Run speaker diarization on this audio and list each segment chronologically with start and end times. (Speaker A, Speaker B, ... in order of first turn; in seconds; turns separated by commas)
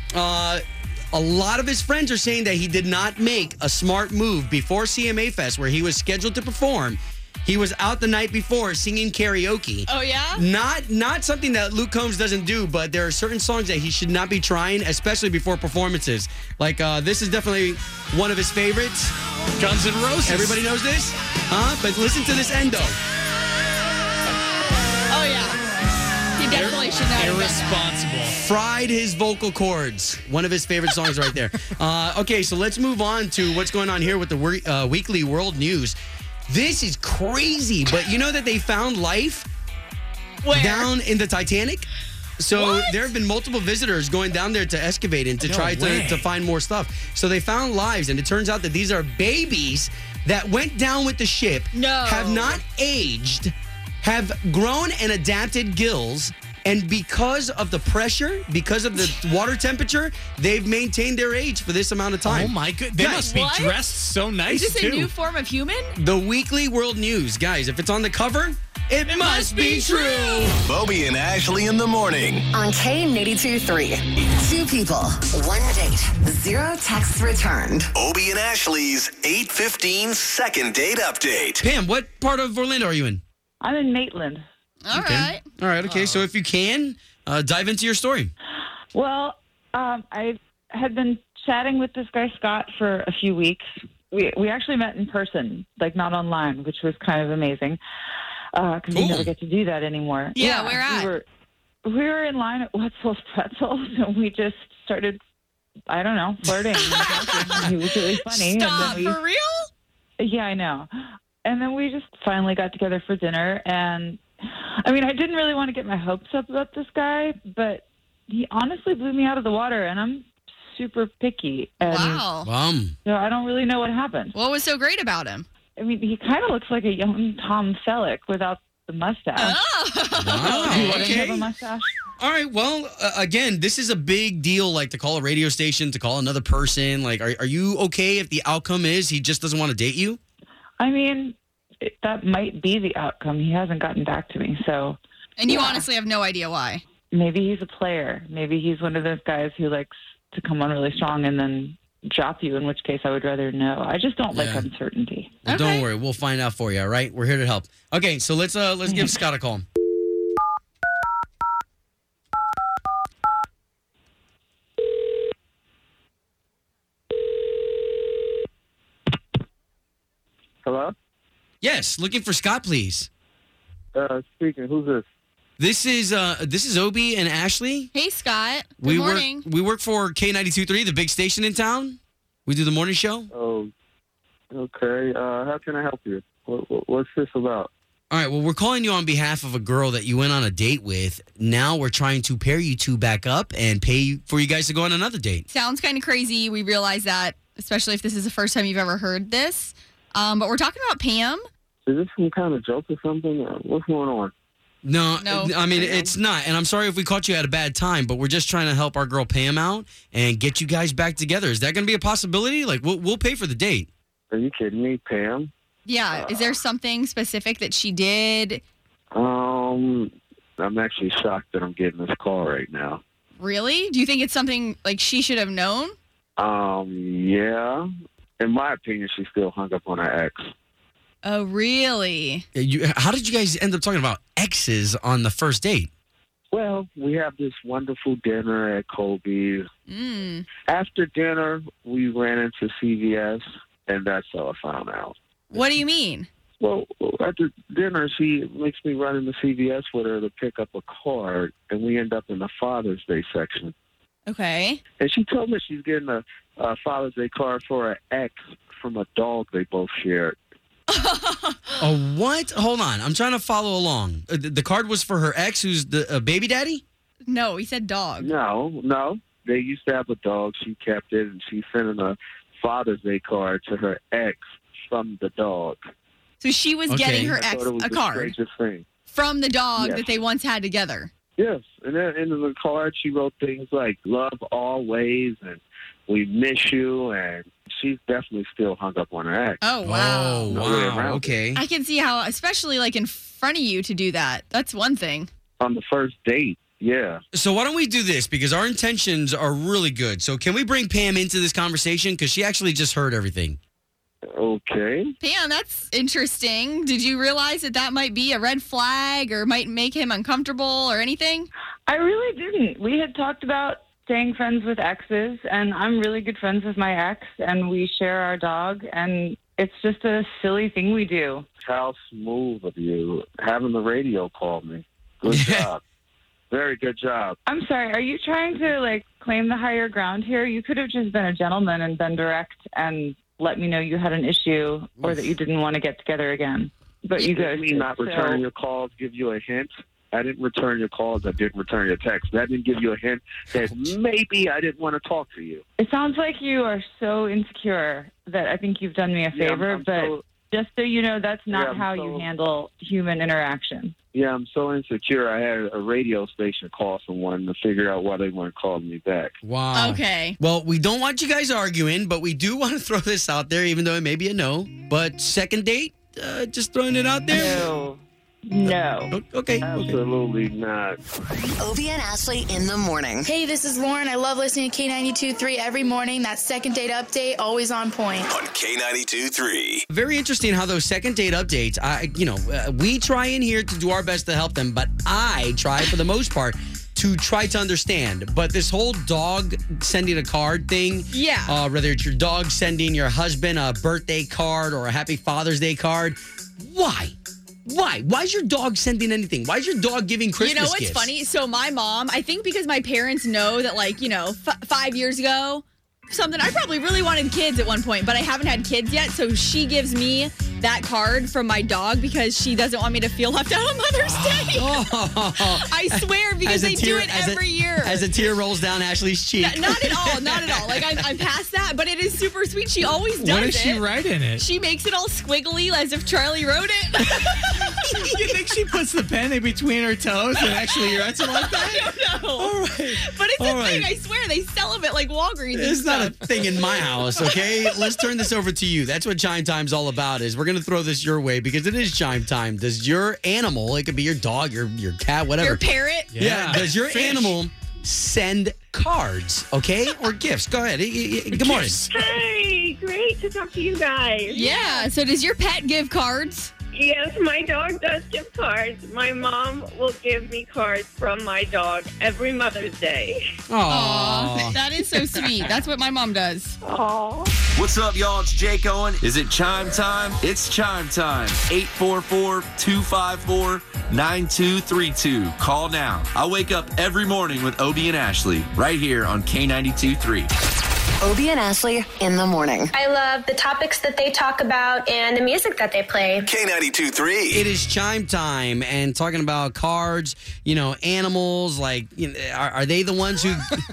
Speaker A: 0.1-19.1, Speaker B: 9.9-10.4, Speaker C: 19.6-20.6, Speaker A: 20.2-23.0, Speaker B: 25.1-25.6, Speaker B: 26.4-27.8, Speaker C: 26.5-28.4, Speaker A: 28.3-39.5, Speaker B: 40.4-40.9, Speaker A: 40.5-41.9, Speaker A: 42.4-63.2, Speaker B: 42.5-43.0, Speaker C: 45.4-46.3, Speaker B: 51.7-52.6, Speaker C: 62.2-65.1, Speaker B: 63.0-63.8, Speaker B: 64.5-66.0, Speaker A: 66.0-70.6, Speaker B: 69.1-70.6, Speaker D: 70.6-72.5, Speaker E: 72.5-77.9, Speaker D: 77.9-81.6, Speaker A: 81.6-83.2, Speaker F: 83.6-84.5, Speaker B: 84.8-85.5, Speaker A: 84.9-88.3, Speaker C: 85.8-86.2, Speaker F: 88.9-97.8, Speaker F: 98.5-101.2, Speaker A: 98.9-99.3, Speaker B: 100.3-101.1, Speaker F: 101.8-105.2, Speaker F: 105.9-109.2, Speaker B: 106.8-109.7, Speaker F: 110.2-110.9, Speaker F: 111.4-122.3, Speaker B: 121.8-122.5, Speaker A: 122.4-123.0, Speaker F: 123.0-124.3, Speaker B: 124.3-125.5, Speaker F: 125.8-129.6, Speaker B: 129.4-131.2, Speaker A: 130.2-131.5, Speaker F: 130.4-131.9, Speaker A: 132.2-140.2, Speaker F: 140.8-145.8, Speaker B: 145.4-146.8, Speaker F: 147.1-155.4, Speaker A: 154.3-154.7, Speaker A: 155.4-159.7, Speaker B: 155.5-155.9, Speaker G: 170.6-170.9, Speaker A: 171.6-173.1, Speaker G: 173.9-175.1, Speaker A: 175.6-177.9, Speaker B: 177.9-179.4, Speaker A: 178.8-183.3, Speaker G: 183.3-183.7, Speaker G: 184.5-187.7, Speaker A: 188.1-195.4, Speaker B: 195.5-201.5, Speaker G: 201.9-204.3, Speaker A: 204.8-213.9, Speaker B: 205.2-205.6, Speaker G: 205.7-206.1, Speaker G: 214.3-215.5, Speaker B: 215.9-218.6, Speaker G: 216.1-216.5, Speaker G: 219.1-223.0, Speaker B: 223.4-226.0, Speaker G: 226.4-227.9, Speaker G: 228.4-230.5, Speaker B: 231.2-232.5, Speaker A: 232.6-235.9, Speaker G: 236.5-239.7, Speaker B: 239.9-240.5, Speaker G: 240.7-245.2, Speaker B: 245.5-246.3, Speaker G: 246.6-253.7, Speaker B: 254.3-254.8, Speaker G: 255.0-260.4, Speaker B: 260.9-261.8, Speaker A: 261.8-266.8, Speaker B: 267.3-268.3, Speaker G: 268.2-275.8, Speaker B: 276.4-278.3, Speaker A: 276.9-277.3, Speaker G: 277.1-278.8, Speaker B: 279.1-281.1, Speaker G: 279.8-280.1, Speaker G: 281.4-289.6, Speaker B: 289.6-290.6, Speaker A: 289.8-291.6, Speaker G: 290.5-291.4, Speaker B: 291.6-295.3, Speaker G: 295.6-297.2, Speaker A: 297.3-303.6, Speaker G: 304.3-305.1, Speaker B: 305.2-311.5, Speaker F: 311.9-321.5, Speaker G: 321.6-325.8, Speaker A: 325.3-325.6, Speaker G: 326.5-327.4, Speaker F: 327.5-338.4, Speaker G: 337.2-345.6, Speaker F: 345.8-354.0, Speaker G: 349.3-350.2, Speaker G: 351.5-352.3, Speaker G: 354.1-359.4, Speaker A: 359.4-367.7, Speaker B: 359.7-360.4, Speaker F: 367.3-369.1, Speaker A: 369.1-370.0, Speaker G: 369.6-371.0, Speaker E: 371.6-373.3, Speaker H: 373.2-378.3, Speaker D: 378.3-379.9, Speaker A: 379.9-401.1, Speaker B: 391.1-391.6, Speaker B: 400.4-414.7, Speaker C: 414.0-414.6, Speaker A: 414.5-421.1, Speaker B: 415.4-418.1, Speaker B: 419.4-423.8, Speaker C: 423.2-424.4, Speaker B: 424.4-428.0, Speaker C: 427.8-431.9, Speaker B: 430.4-438.2, Speaker A: 432.4-433.9, Speaker A: 435.6-451.8, Speaker B: 445.4-446.1, Speaker C: 446.1-447.4, Speaker C: 451.3-452.1, Speaker I: 451.9-454.9, Speaker B: 454.3-456.5, Speaker I: 456.7-463.2, Speaker A: 463.5-464.6, Speaker B: 463.7-466.6, Speaker I: 466.6-467.3, Speaker J: 467.6-480.3, Speaker E: 481.0-482.7, Speaker K: 482.7-486.3, Speaker D: 486.2-487.4, Speaker A: 487.3-493.6